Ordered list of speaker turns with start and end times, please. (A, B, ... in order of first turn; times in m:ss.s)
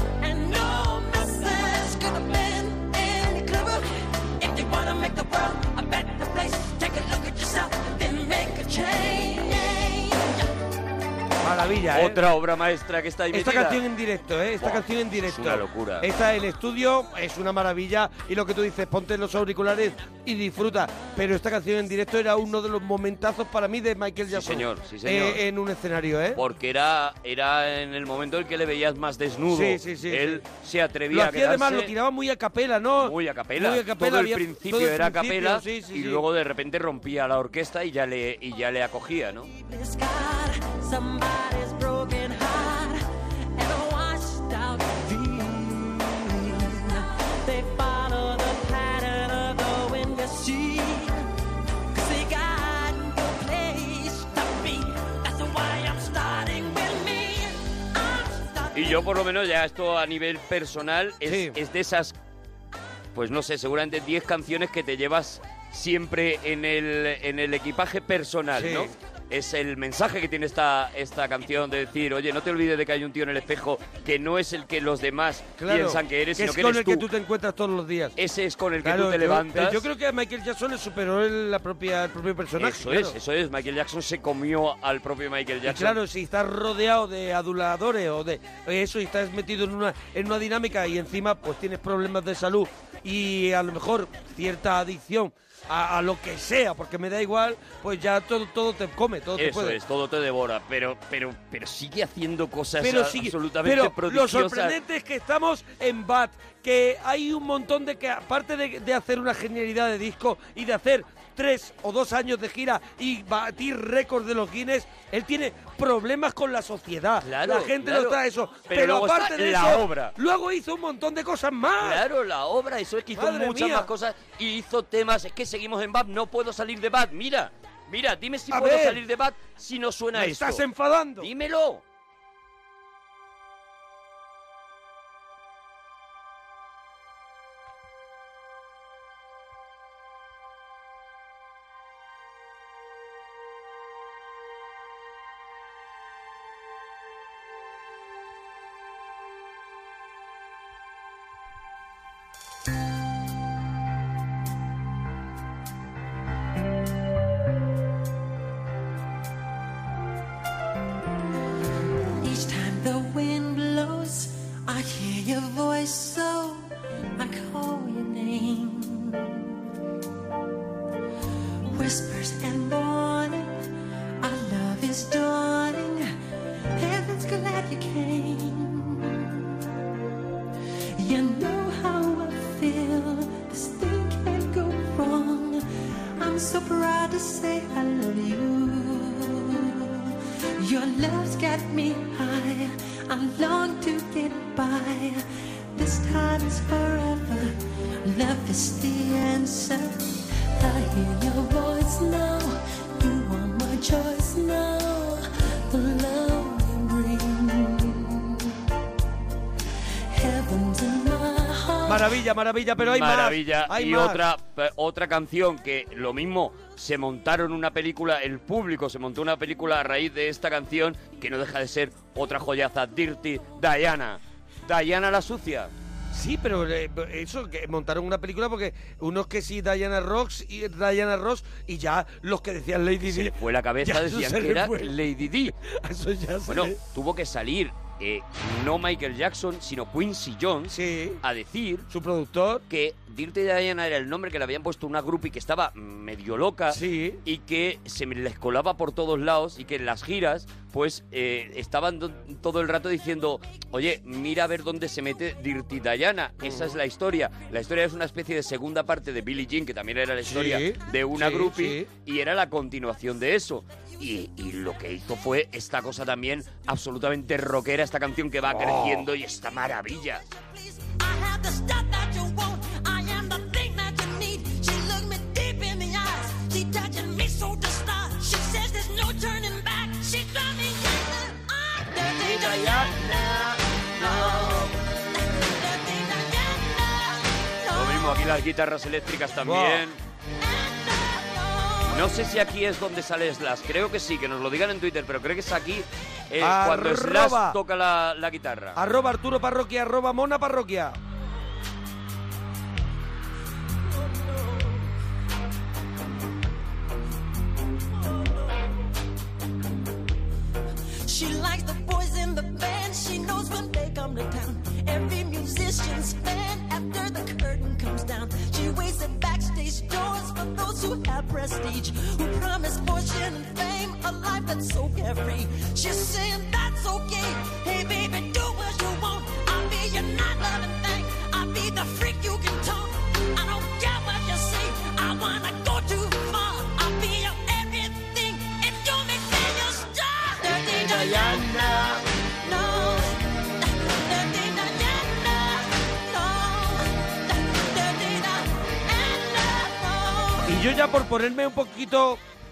0:00.2-0:10.5 A
0:11.4-0:12.2 B
0:11.9-0:13.8 C
0:13.3-0:26.4 B
0:14.6-0:16.1 C
0:24.3-0:25.4 C
0:26.4-0:31.9 C
0:29.5-0:30.4 B
0:31.1-0:36.2 B
0:33.0-0:39.5 C
0:39.5-0:43.0 A
0:43.6-0:51.2 A
0:51.9-0:59.1 A
0:58.7-1:02.2 C
1:01.2-1:01.6 B
1:03.1-1:17.1 C
1:08.5-1:08.9 B
1:15.6-1:18.2 B
1:18.2-1:19.9 C
1:18.8-1:23.2 B
1:22.6-1:26.0 C
1:25.6-1:39.8 B
1:39.4-1:44.8 C
1:42.8-2:02.0 B
1:57.2-2:00.2 C
2:01.8-2:10.6 C
2:03.1-2:03.9 B
2:08.5-2:09.0 B
2:10.1-2:11.3 B
2:11.2-2:11.8 C
2:42.2-2:49.5 A
2:51.7-2:53.7 A
2:54.2-2:56.1 A
2:56.7-2:59.5 A
3:01.0-3:28.6 A
3:30.1-3:32.2 A
3:31.9-3:34.2 B
3:32.8-3:45.7 C
3:46.1-3:55.0 B
3:53.0-3:55.6 C
3:55.6-3:56.8 B
3:56.5-4:01.9 C
4:00.7-4:01.2 B
4:01.9-4:02.6 B
4:02.7-4:30.2 C
4:06.7-4:07.2 B
4:16.4-4:16.8 B
4:20.3-4:21.9 B
4:28.5-4:29.1 B
4:30.8-4:48.4 A
4:42.5-4:43.0 B
4:44.0-4:44.5 B
4:47.7-4:50.0 C
4:49.4-4:49.8 B
4:50.4-4:52.1 A
4:51.9-4:58.8 C
4:56.4-4:57.6 B
4:58.8-5:01.0 B
5:11.0-5:50.5 A
5:40.8-5:42.0 B
5:50.4-5:52.2 B